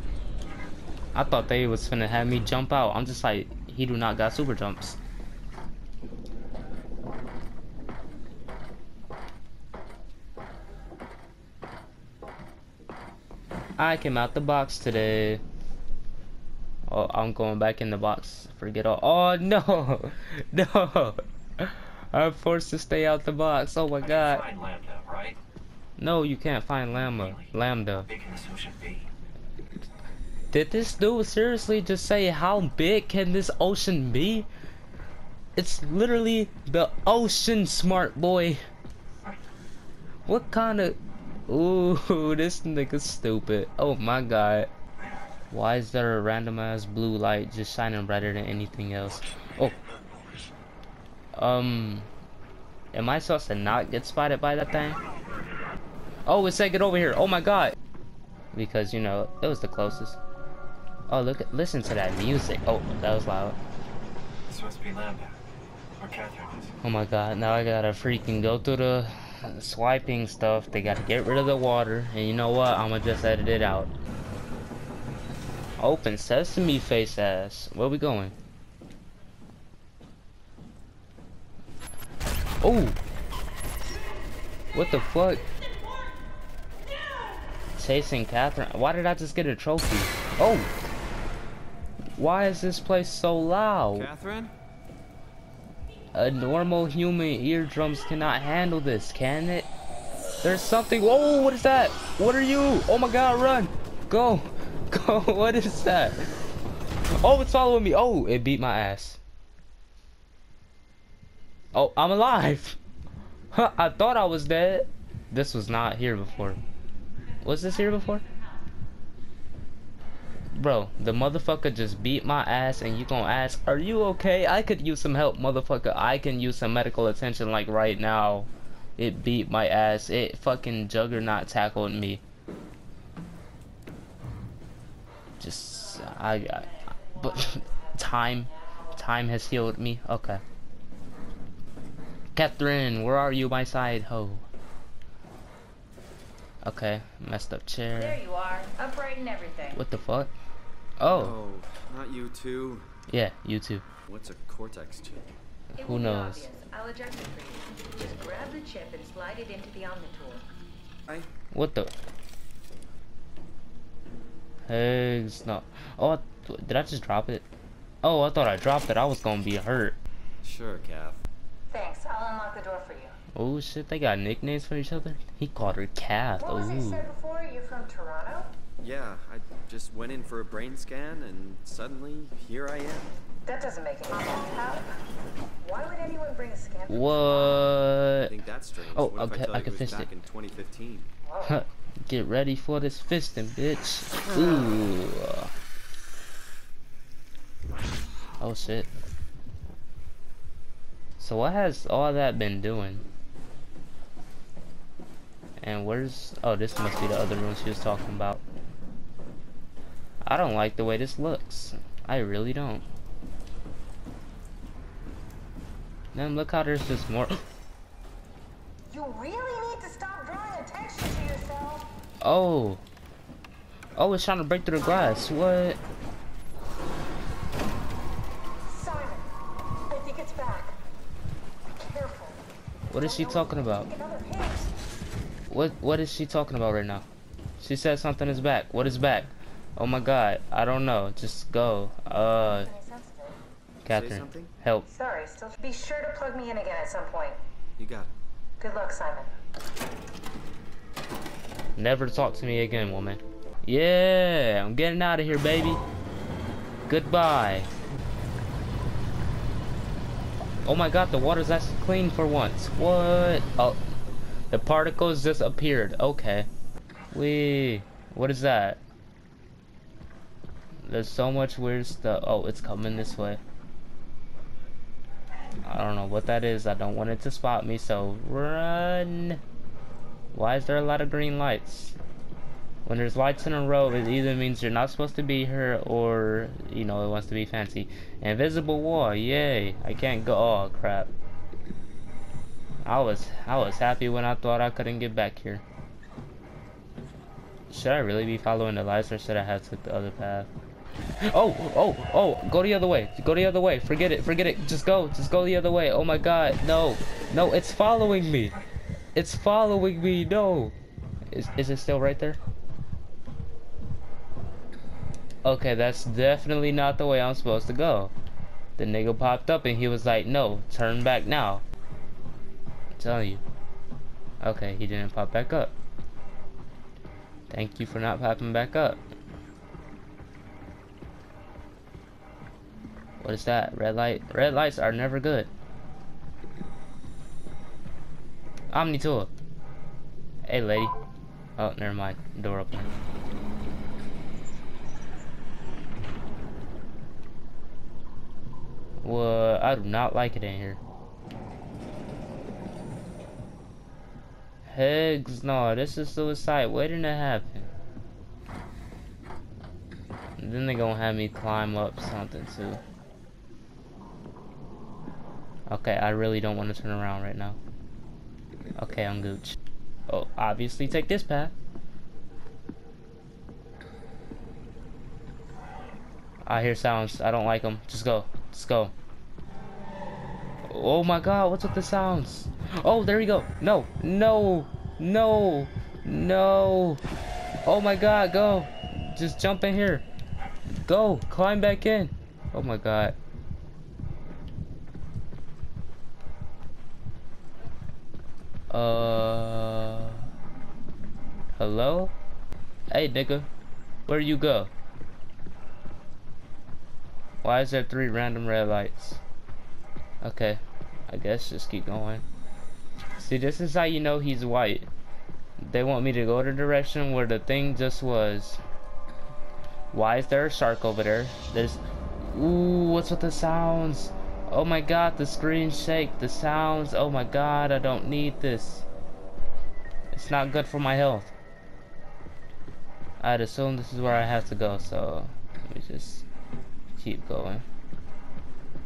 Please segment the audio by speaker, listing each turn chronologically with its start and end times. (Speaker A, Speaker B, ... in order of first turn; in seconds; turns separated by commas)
Speaker A: 1.1-5.0, Speaker A: 13.8-15.4, Speaker A: 16.9-24.5, Speaker B: 24.1-24.6, Speaker C: 24.5-25.4, Speaker A: 26.0-28.1, Speaker C: 27.1-27.5, Speaker C: 28.1-29.0, Speaker B: 28.5-29.0, Speaker A: 30.5-34.5, Speaker A: 35.6-38.6, Speaker A: 40.3-44.7, Speaker A: 45.5-49.8, Speaker A: 51.4-52.1, Speaker A: 52.9-55.0, Speaker A: 56.3-57.8, Speaker A: 58.5-60.2, Speaker A: 61.1-63.6, Speaker B: 64.5-65.3, Speaker C: 66.0-66.5, Speaker B: 66.1-66.7, Speaker A: 66.8-73.9, Speaker A: 75.8-78.3, Speaker A: 82.6-83.0, Speaker A: 84.7-85.5, Speaker A: 87.8-90.7, Speaker A: 92.2-94.1, Speaker B: 93.9-94.5, Speaker A: 96.1-99.7, Speaker A: 100.4-106.2, Speaker A: 107.2-109.2, Speaker A: 111.7-112.8, Speaker A: 113.5-116.6, Speaker A: 117.4-118.2, Speaker A: 120.5-132.2, Speaker A: 135.4-140.4, Speaker A: 142.3-144.5, Speaker A: 146.6-148.2, Speaker D: 147.9-149.8, Speaker A: 149.7-150.3, Speaker A: 151.0-151.4, Speaker B: 151.1-152.9, Speaker A: 153.1-153.8, Speaker B: 154.1-155.3, Speaker A: 155.8-156.5, Speaker D: 155.8-160.5, Speaker A: 161.5-161.9, Speaker A: 164.7-167.5, Speaker A: 168.0-170.0, Speaker B: 170.4-171.2, Speaker D: 171.7-173.2, Speaker A: 173.3-177.1, Speaker D: 176.4-178.5, Speaker B: 178.8-183.1, Speaker D: 183.5-184.9, Speaker D: 185.6-187.6, Speaker A: 186.9-188.3, Speaker B: 188.3-191.1, Speaker A: 188.9-190.1, Speaker D: 191.3-191.6, Speaker A: 191.4-195.5, Speaker B: 194.2-194.9, Speaker A: 198.4-198.9, Speaker A: 201.2-203.1, Speaker A: 205.6-208.4, Speaker A: 210.2-212.9, Speaker A: 216.1-217.4, Speaker D: 218.9-221.9, Speaker A: 222.2-222.8, Speaker A: 224.0-225.8, Speaker D: 228.7-229.3, Speaker D: 229.9-230.8, Speaker D: 231.7-232.4, Speaker A: 232.9-233.9, Speaker D: 232.9-234.7, Speaker A: 235.5-237.1, Speaker A: 237.6-242.7, Speaker D: 242.5-243.4, Speaker A: 243.8-244.9, Speaker B: 243.9-244.5, Speaker D: 244.9-247.4, Speaker B: 247.8-248.1, Speaker D: 248.6-249.3, Speaker A: 251.8-255.8, Speaker A: 256.9-257.7, Speaker A: 260.6-263.8, Speaker A: 264.5-266.5, Speaker A: 267.1-268.8, Speaker A: 270.8-273.4, Speaker A: 275.6-279.4, Speaker A: 280.3-282.0, Speaker A: 282.9-291.1, Speaker A: 292.8-295.6, Speaker A: 297.7-300.5, Speaker A: 301.3-308.6, Speaker A: 309.1-310.8, Speaker A: 311.3-312.4, Speaker A: 315.4-318.1, Speaker A: 318.8-321.6, Speaker A: 322.9-323.4, Speaker A: 324.4-325.7, Speaker A: 327.5-329.0, Speaker A: 333.2-335.5, Speaker A: 338.7-339.3, Speaker A: 340.5-340.9, Speaker A: 341.6-342.9, Speaker A: 349.0-350.8, Speaker A: 354.7-357.7, Speaker A: 360.4-362.8, Speaker A: 365.7-367.6, Speaker A: 368.8-369.6, Speaker A: 370.1-371.5, Speaker A: 376.5-378.9, Speaker A: 380.7-387.0, Speaker A: 387.7-390.1, Speaker A: 390.9-393.2, Speaker A: 398.7-400.3, Speaker A: 401.6-402.1, Speaker A: 402.9-403.5, Speaker A: 404.1-404.7, Speaker A: 407.4-409.2, Speaker A: 410.2-412.2, Speaker A: 413.2-414.9, Speaker A: 415.6-418.6, Speaker A: 419.9-428.9, Speaker A: 430.1-431.3, Speaker A: 433.2-436.3, Speaker A: 436.9-437.6